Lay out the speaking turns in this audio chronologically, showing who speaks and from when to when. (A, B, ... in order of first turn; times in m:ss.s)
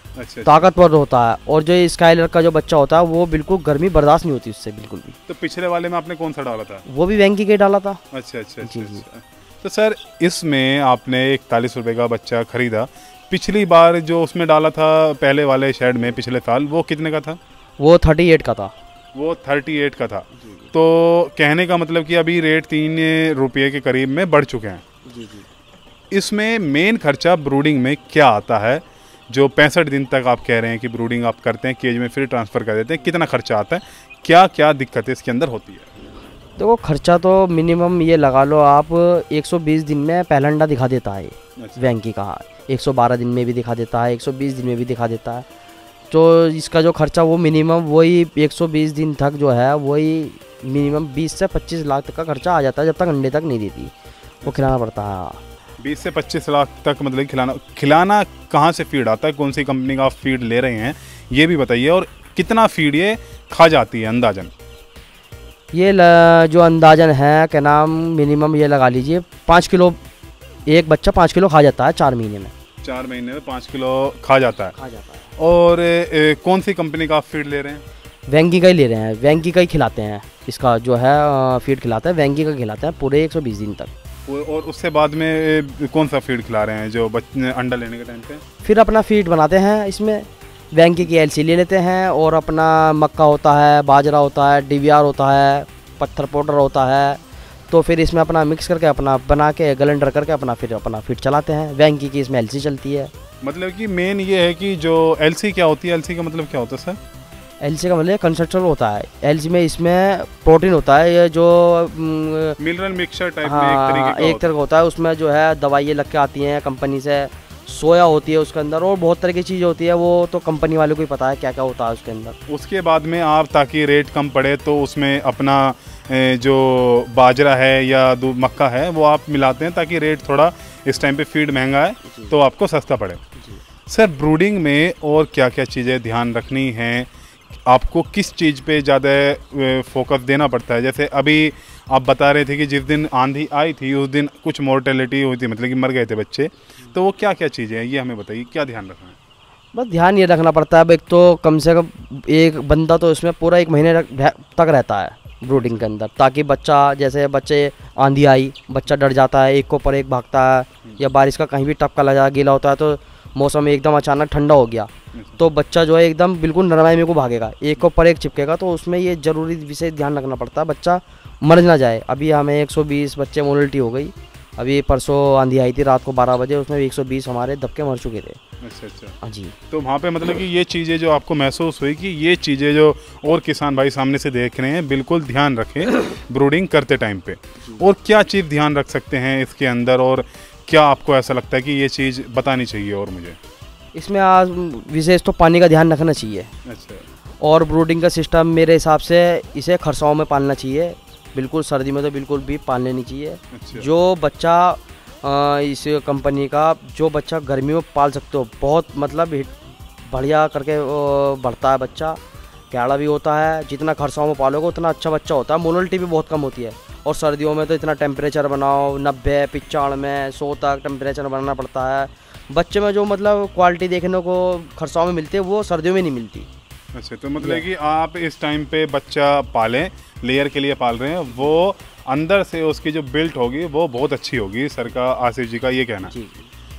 0:00.2-0:00.6 A
0:00.4-0:05.2 B
0:05.3-0:06.8 A
0:06.9-0:08.0 B
0:08.1-0:17.4 A
0:08.6-0:09.0 B
0:17.8-0:18.7 B
0:19.1-0:24.8 A
0:20.4-0:20.7 B
0:25.1-0:25.5 B
0:26.1-0:35.9 A
0:36.6-0:45.4 B
0:41.6-0:41.9 A
0:46.1-0:53.9 B
0:54.4-0:55.4 B
0:55.8-1:04.5 A
1:05.7-1:10.0 B
1:10.6-1:12.5 B
1:12.8-1:14.7 A
1:14.8-1:15.3 B
1:15.4-1:17.8 A
1:18.3-1:23.9 B
1:24.3-1:28.4 A
1:28.6-1:43.1 B
1:43.4-1:47.0 A
1:47.6-1:52.6 B
1:52.6-1:54.5 A
1:53.4-2:02.4 B
2:02.5-2:13.2 A
2:13.9-2:17.1 A
2:17.6-2:29.2 A
2:29.7-2:58.4 B
2:35.5-2:35.8 A
2:45.1-2:45.4 A
2:58.6-2:59.2 A
2:59.2-2:59.6 B
2:59.7-3:13.4 A
3:13.9-3:16.5 B
3:16.6-3:17.0 A
3:17.4-3:29.5 B
3:23.5-3:23.9 A
3:30.0-3:32.2 B
3:32.7-3:46.5 B
3:46.9-3:56.1 A
3:47.4-3:47.6 B
3:56.1-3:56.5 B